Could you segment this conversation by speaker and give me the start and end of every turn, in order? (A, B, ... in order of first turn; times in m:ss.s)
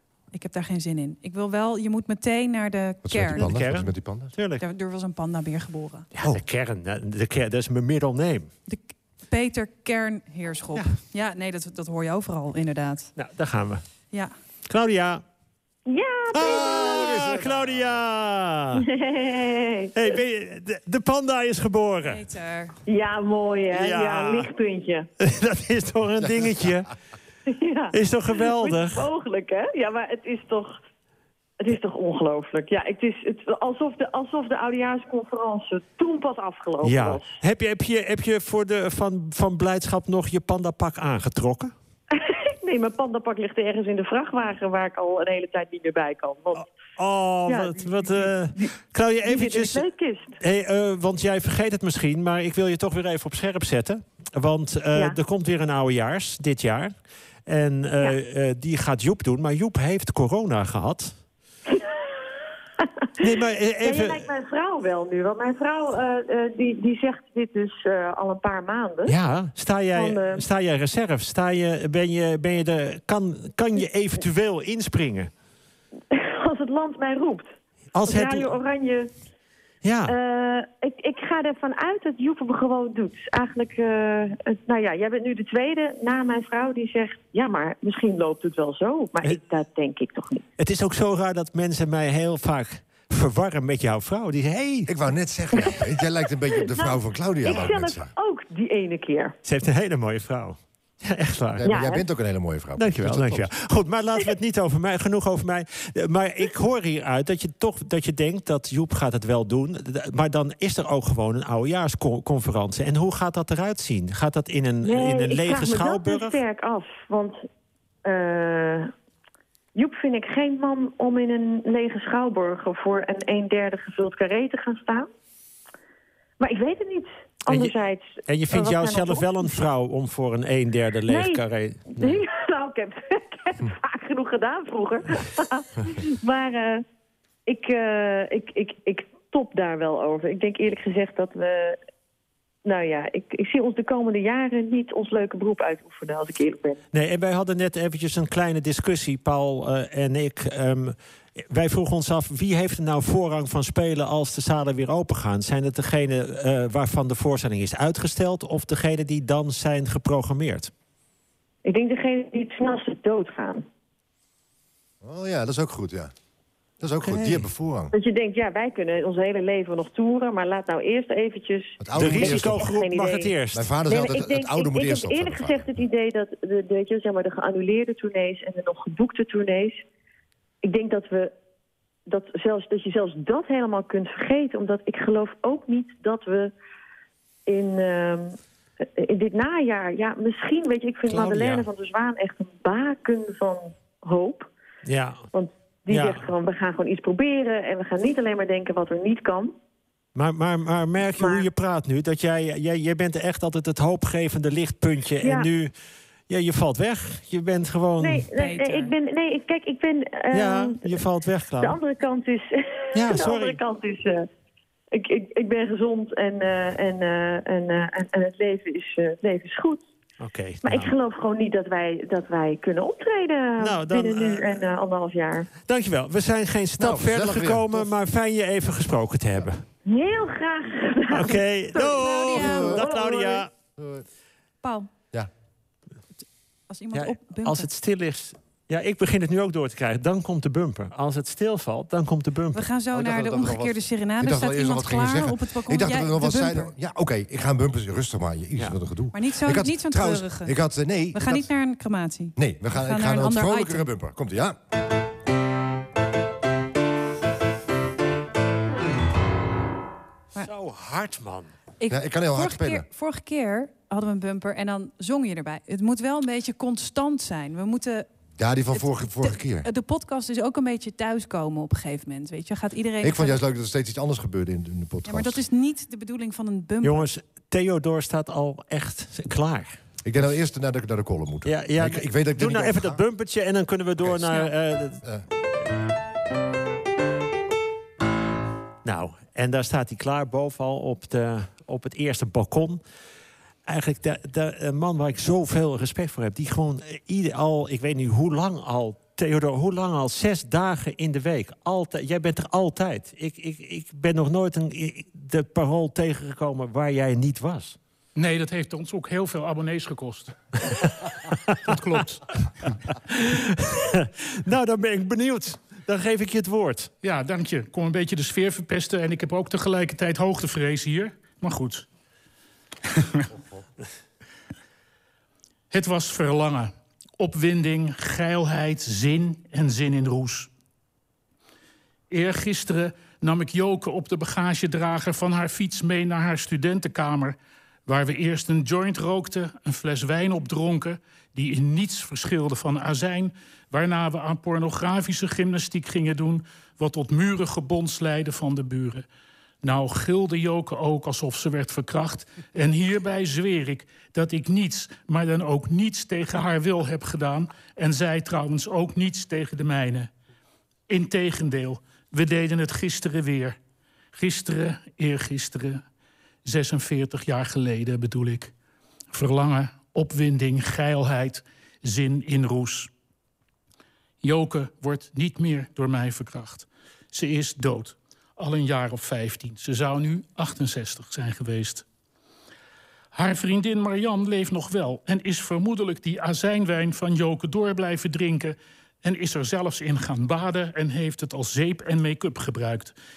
0:00.3-0:03.4 A
0:03.0-0:04.3 B
0:03.4-0:04.6 C
0:04.6-0:06.1 A
0:06.1-0:08.5 C
0:08.7-0:13.1 A
0:13.2-0:13.8 C
0:14.7-0:15.2 C
0:15.9-0:17.2 D
0:16.3-0:18.9 C
0:16.4-0:18.0 B
0:18.7-0:20.2 D
0:20.0-0:22.2 C
0:22.0-0:22.7 A
0:22.9-0:25.1 D
0:23.7-0:24.5 C
0:25.2-0:26.9 C
0:26.2-0:26.7 B
0:27.5-0:30.8 D
0:27.9-0:29.1 C
0:31.6-0:37.3 D
0:36.8-0:41.7 C
0:42.1-0:46.7 D
0:46.6-0:49.8 C
0:47.5-0:48.7 D
0:49.2-0:50.4 D
0:50.4-0:56.9 C
0:57.5-1:01.2 C
1:01.7-1:02.0 D
1:02.8-1:03.1 D
1:03.2-1:04.3 C
1:03.8-1:09.2 D
1:09.1-1:15.3 C
1:09.9-1:10.4 D
1:16.1-1:17.5 D
1:18.0-1:18.6 C
1:18.0-1:19.1 D
1:19.8-1:20.2 C
1:20.1-1:30.4 D
1:30.6-1:34.9 C
1:34.9-1:38.1 B
1:35.6-1:35.9 D
1:36.7-1:39.4 D
1:39.4-1:41.7 C
1:41.6-1:43.5 B
1:41.6-1:42.0 D
1:42.8-1:56.4 C
1:54.8-1:57.4 D
1:58.0-1:58.9 D
1:59.8-2:05.1 D
2:06.4-2:09.6 D
2:07.5-2:07.7 C
2:08.3-2:12.2 C
2:11.1-2:16.8 D
2:17.5-2:21.8 D
2:22.6-2:26.8 D
2:26.9-2:40.7 C
2:41.6-2:43.7 D
2:45.0-2:46.1 B
2:46.8-2:47.9 B
2:47.0-2:47.5 C
2:47.9-2:53.3 D
2:51.8-2:52.7 B
2:52.0-2:53.7 C
2:53.5-2:55.8 B
2:53.9-2:59.8 D
3:00.6-3:01.3 D
3:02.1-3:06.5 D
3:07.5-3:14.5 D
3:11.1-3:11.7 C
3:14.8-3:15.2 C
3:15.3-3:19.5 D
3:15.9-3:16.2 C
3:20.2-3:25.7 C
3:21.2-3:21.5 D
3:25.2-3:25.5 D
3:26.3-3:28.3 C
3:28.0-3:31.0 D
3:28.4-3:28.9 A
3:30.3-3:31.8 C
3:31.6-3:34.3 D
3:32.9-3:33.6 C
3:34.9-3:39.8 D
3:40.2-3:40.9 C
3:40.6-3:45.5 D
3:43.6-3:44.6 C
3:45.7-3:49.6 C
3:46.8-3:47.9 B
3:49.9-3:53.4 D
3:51.1-3:53.5 C
3:51.9-3:52.8 A
3:52.4-3:52.8 B
3:53.8-3:54.1 B
3:54.6-3:54.9 A
3:56.7-3:57.7 A
3:56.9-4:02.7 C
4:02.5-4:06.7 A
4:02.9-4:11.5 B
4:09.1-4:10.5 A
4:11.1-4:13.9 A
4:12.4-4:14.6 B
4:20.4-4:21.5 C
4:21.8-4:28.1 A
4:21.9-4:22.9 B
4:28.4-4:29.7 B
4:28.7-4:33.4 A
4:33.0-4:35.4 B
4:35.0-4:37.1 A
4:36.8-4:39.8 C
4:40.0-4:43.0 B
4:41.4-4:45.0 C
4:44.0-4:44.3 B
4:48.8-4:52.8 C
4:53.7-5:07.8 C
5:08.2-5:10.9 E
5:11.6-5:12.7 E
5:13.1-5:16.9 C
5:17.0-5:21.9 E
5:22.9-5:23.3 E
5:23.3-5:23.6 B
5:25.7-5:30.5 E
5:32.1-5:49.1 E
5:49.6-6:00.1 E
6:00.9-6:03.6 E
6:04.1-6:05.8 E
6:06.4-6:08.5 E
6:09.1-6:12.9 E
6:14.2-6:21.8 E
6:23.1-6:32.9 E